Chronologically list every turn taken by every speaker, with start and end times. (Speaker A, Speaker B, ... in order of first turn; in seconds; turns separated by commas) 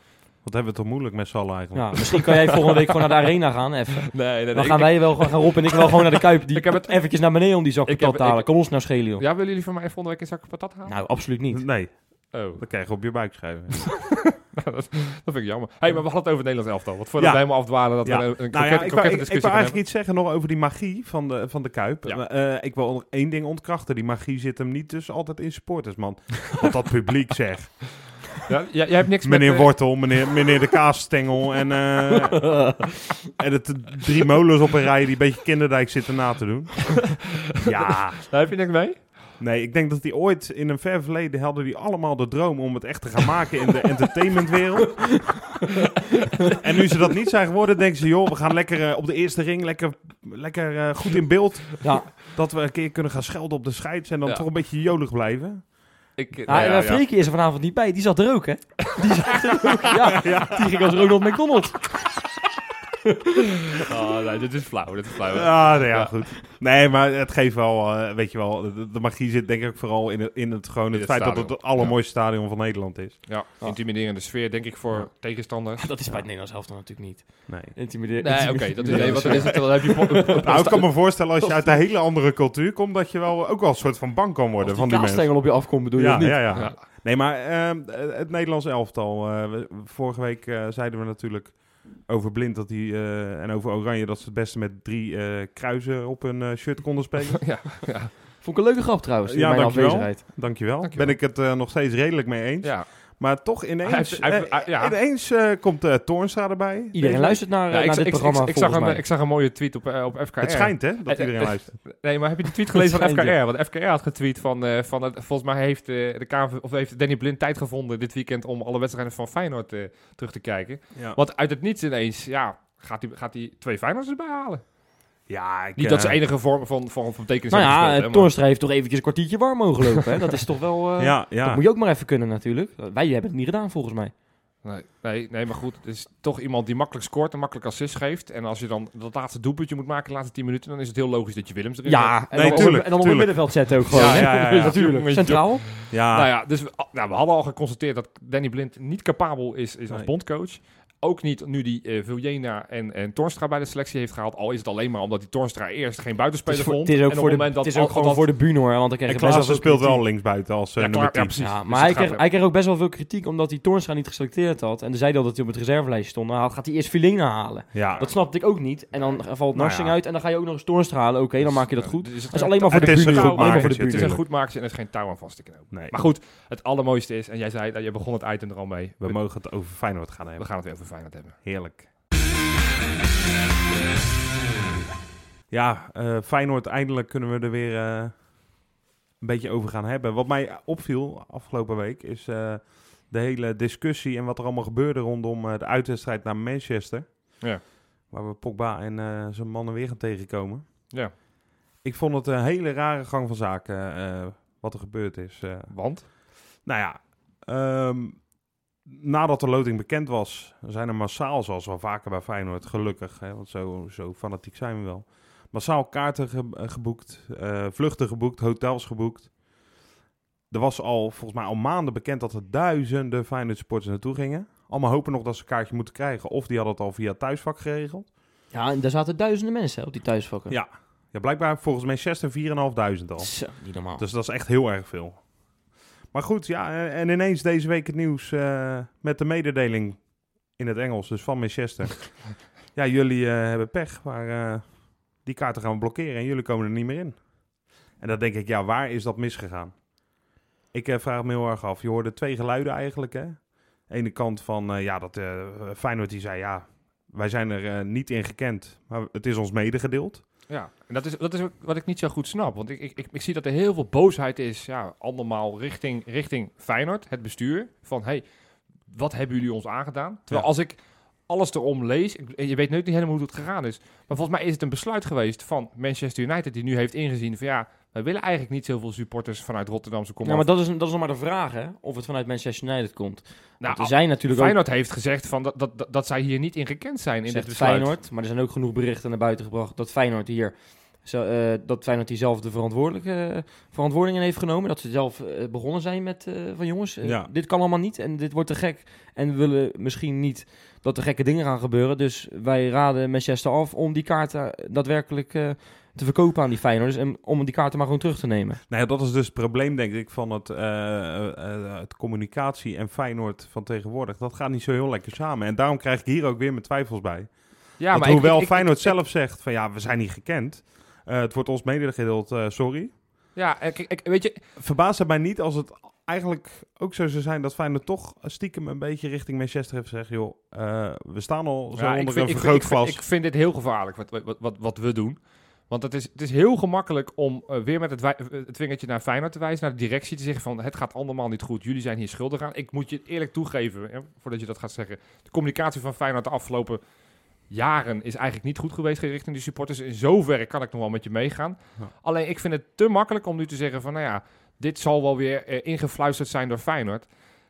Speaker A: 0.4-2.4, Speaker B: 1.7-9.2, Speaker C: 2.2-3.1, Speaker C: 4.1-7.0, Speaker C: 7.9-10.9, Speaker B: 10.9-11.7, Speaker A: 11.5-14.2, Speaker C: 12.3-12.7, Speaker C: 13.9-19.8, Speaker A: 17.2-28.0, Speaker C: 28.4-30.5, Speaker A: 29.2-38.3, Speaker B: 32.4-32.8, Speaker C: 37.6-39.2, Speaker A: 39.4-45.4, Speaker A: 46.5-55.7, Speaker B: 51.8-52.1, Speaker C: 56.2-57.0, Speaker B: 56.5-62.1, Speaker A: 60.2-60.6, Speaker B: 63.0-63.3, Speaker C: 63.8-66.2, Speaker A: 65.3-73.3, Speaker C: 70.9-72.0, Speaker C: 73.3-76.1, Speaker B: 75.8-81.8, Speaker A: 77.5-77.8, Speaker C: 78.2-80.9, Speaker A: 78.8-79.9, Speaker A: 80.4-97.6, Speaker B: 84.6-86.8, Speaker C: 86.5-86.8, Speaker C: 97.4-98.2, Speaker B: 98.4-100.2, Speaker A: 99.3-107.2, Speaker C: 100.8-101.2, Speaker C: 102.6-102.9, Speaker C: 103.8-105.0, Speaker B: 106.9-109.0, Speaker C: 107.0-124.6, Speaker A: 110.4-111.8, Speaker B: 112.8-113.3, Speaker A: 125.3-126.2, Speaker C: 125.8-128.3, Speaker B: 127.5-134.1, Speaker A: 131.0-131.6, Speaker C: 134.6-142.7, Speaker B: 141.9-145.7, Speaker A: 142.3-145.3, Speaker C: 143.9-158.3, Speaker A: 145.9-146.3, Speaker B: 156.5-160.0, Speaker A: 159.1-161.4, Speaker C: 160.8-162.2, Speaker B: 161.4-174.2, Speaker A: 167.7-168.1, Speaker A: 169.5-170.0, Speaker C: 171.4-179.3, Speaker A: 172.7-174.2, Speaker A: 175.7-176.0, Speaker A: 179.0-180.5, Speaker C: 180.4-181.4, Speaker A: 181.4-181.8, Speaker A: 185.5-188.3, Speaker A: 189.2-197.4, Speaker A: 198.1-200.7, Speaker A: 201.8-205.7, Speaker C: 205.7-206.1, Speaker A: 206.6-208.3, Speaker A: 208.8-219.3, Speaker A: 220.5-228.1, Speaker B: 228.5-230.6, Speaker A: 230.5-235.3, Speaker B: 233.2-234.0, Speaker A: 236.1-247.4, Speaker A: 247.9-249.8, Speaker A: 250.7-260.2, Speaker C: 260.5-268.2, Speaker C: 268.9-280.5, Speaker B: 280.2-284.6, Speaker C: 283.6-287.9, Speaker B: 287.3-308.6, Speaker A: 297.0-297.3, Speaker A: 308.7-322.9, Speaker C: 317.8-318.9, Speaker C: 323.3-324.4, Speaker A: 324.6-333.0, Speaker C: 331.8-346.8, Speaker C: 347.5-357.1